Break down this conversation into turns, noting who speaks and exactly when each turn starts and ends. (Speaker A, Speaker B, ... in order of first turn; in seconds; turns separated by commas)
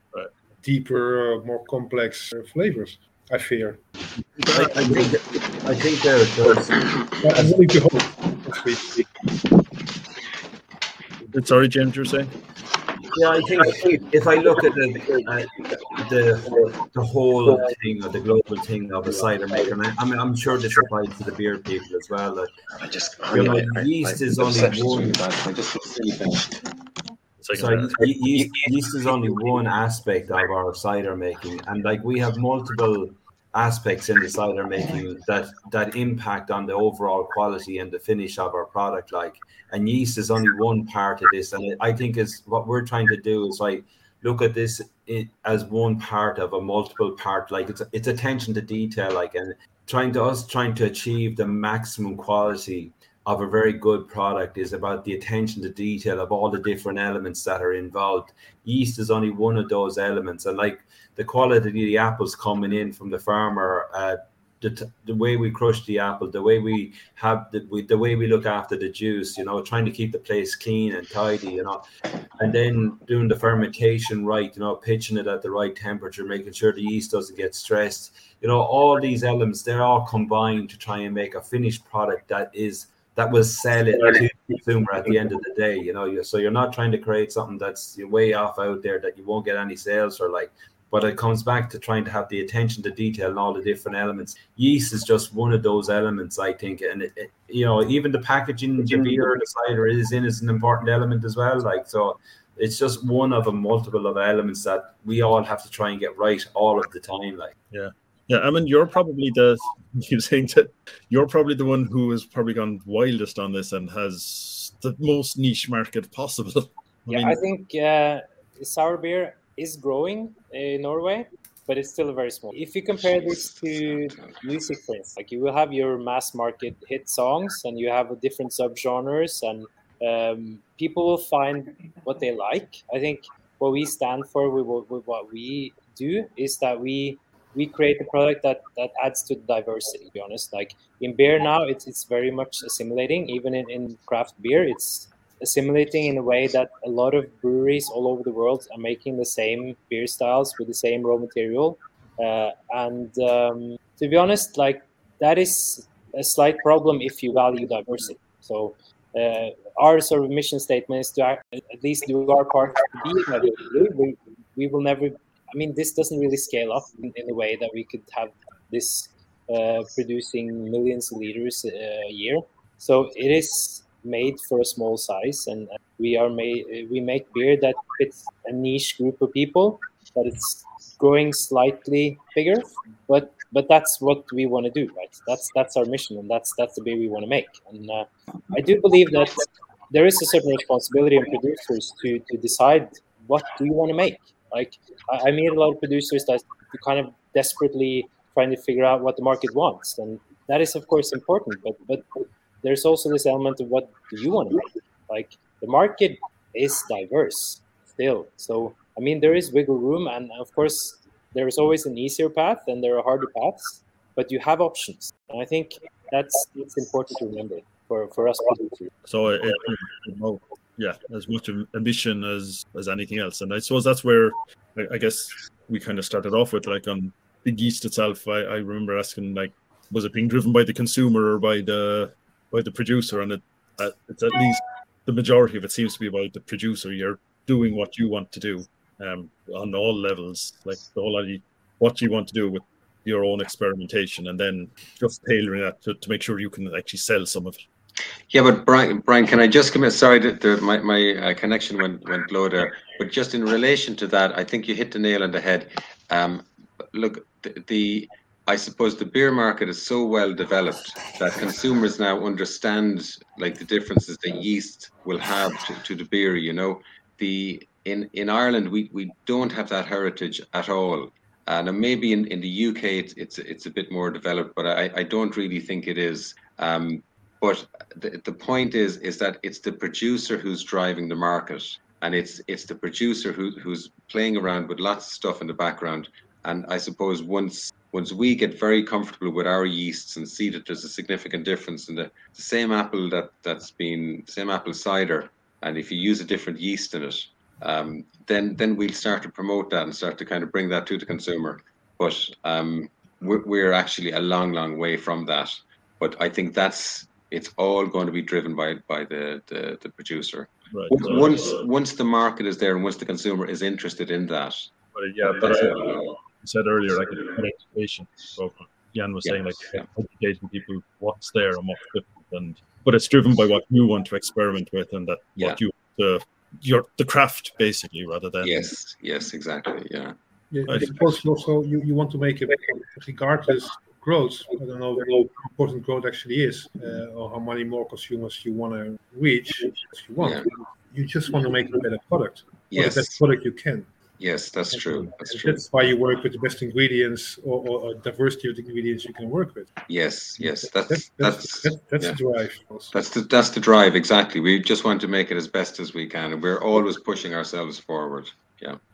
Speaker A: 0.6-3.8, Speaker B: 4.4-5.2, Speaker C: 4.5-7.5, Speaker A: 7.2-9.1, Speaker B: 11.3-12.3, Speaker C: 13.1-22.5, Speaker C: 23.3-25.2, Speaker D: 25.2-26.4, Speaker B: 27.4-28.1, Speaker C: 27.5-71.8, Speaker C: 72.4-107.5, Speaker B: 107.7-117.4, Speaker E: 117.1-218.9, Speaker D: 123.0-124.4, Speaker B: 219.1-247.6, Speaker D: 248.3-314.7, Speaker B: 310.7-311.6, Speaker B: 314.9-328.7, Speaker D: 315.2-316.1, Speaker D: 319.2-319.9, Speaker D: 328.4-330.1, Speaker A: 330.5-343.9, Speaker D: 340.2-340.5, Speaker D: 342.7-343.2, Speaker D: 344.2-345.7, Speaker A: 344.7-349.7, Speaker D: 349.9-352.2, Speaker A: 350.4-352.9, Speaker D: 352.9-358.8